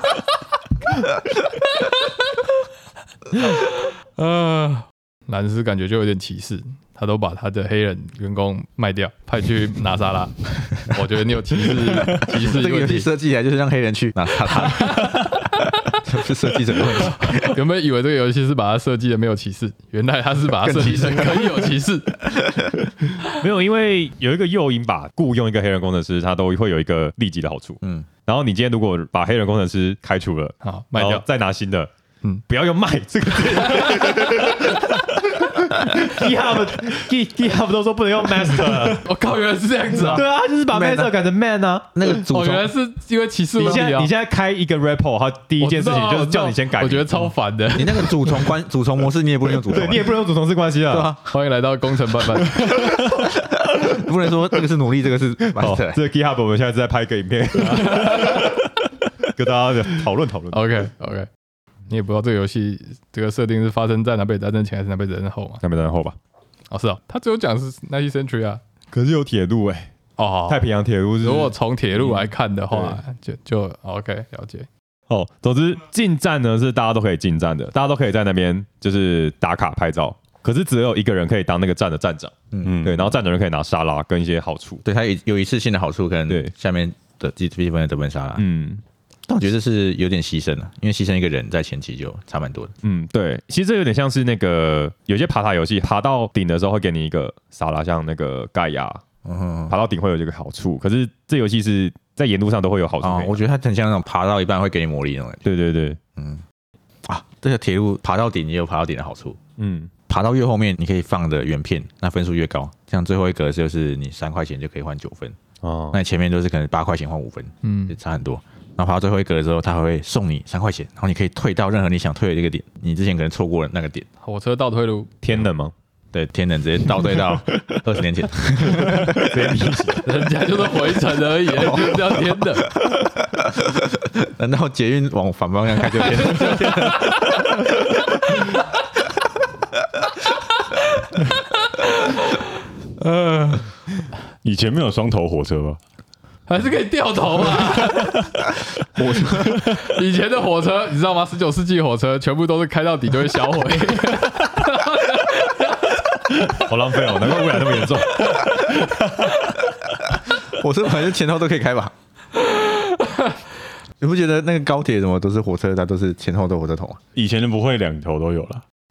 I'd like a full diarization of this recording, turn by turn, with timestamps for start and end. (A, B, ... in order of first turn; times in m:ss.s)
0:03.4-0:13.1 A
0:11.9-0:17.6 B
0:14.7-0:15.4 A
0:17.1-0:22.2 A
0:20.6-0:22.9 B
0:23.3-0:31.9 C
0:27.8-0:28.1 B
0:30.6-0:31.2 A
0:32.5-0:39.0 C
0:33.7-0:34.1 A
0:39.0-0:40.2 A
0:40.0-0:42.2 C
0:40.7-0:41.1 B
0:41.9-0:42.7 B
0:42.3-0:44.1 A
0:43.6-0:47.1 C
0:45.6-0:48.5 A
0:47.7-0:50.1 B
0:49.6-0:51.1 C
0:50.9-0:51.3 B
0:51.3-0:52.9 A
0:52.5-0:56.0 B
0:55.6-0:58.6 C
0:57.7-0:58.4 A
0:59.2-1:00.6 C
1:00.5-1:01.3 A
1:01.9-1:05.6 A
1:05.6-1:06.2 C
1:06.7-1:08.6 A
1:08.9-1:09.9 C
1:10.2-1:10.6 A
1:10.5-1:13.0 C
1:11.2-1:14.7 A
1:15.1-1:24.8 C
1:22.5-1:22.8 B
1:22.6-1:23.1 D
1:24.8-1:28.4 B
1:28.4-1:28.8 C
1:29.3-1:32.7 B
1:32.8-1:39.0 C
1:39.2-1:39.7 B
1:39.7-1:43.4 C
1:43.0-1:45.4 B
1:45.4-1:46.0 C
1:46.2-1:46.4 B
1:47.0-1:49.4 B
1:49.6-1:49.9 C
1:50.1-1:55.4 B
1:55.6-1:56.0 C
1:55.9-2:04.1 B
1:57.6-1:58.0 A
2:04.2-2:05.1 A
2:05.2-2:05.7 C
2:06.1-2:09.7 B
2:08.8-2:10.0 C
2:10.0-2:12.7 A
2:11.5-2:17.6 B
2:16.3-2:17.4 A
2:21.1-2:22.5 A
2:23.0-2:23.7 A
2:24.4-2:25.8 D
2:26.5-2:28.3 A
2:28.9-2:29.7 B
2:29.6-2:36.0 A
2:36.4-2:38.6 C
2:40.1-2:41.9 B
2:42.6-2:43.3 A
2:44.0-2:47.0 B
2:47.1-2:48.6 D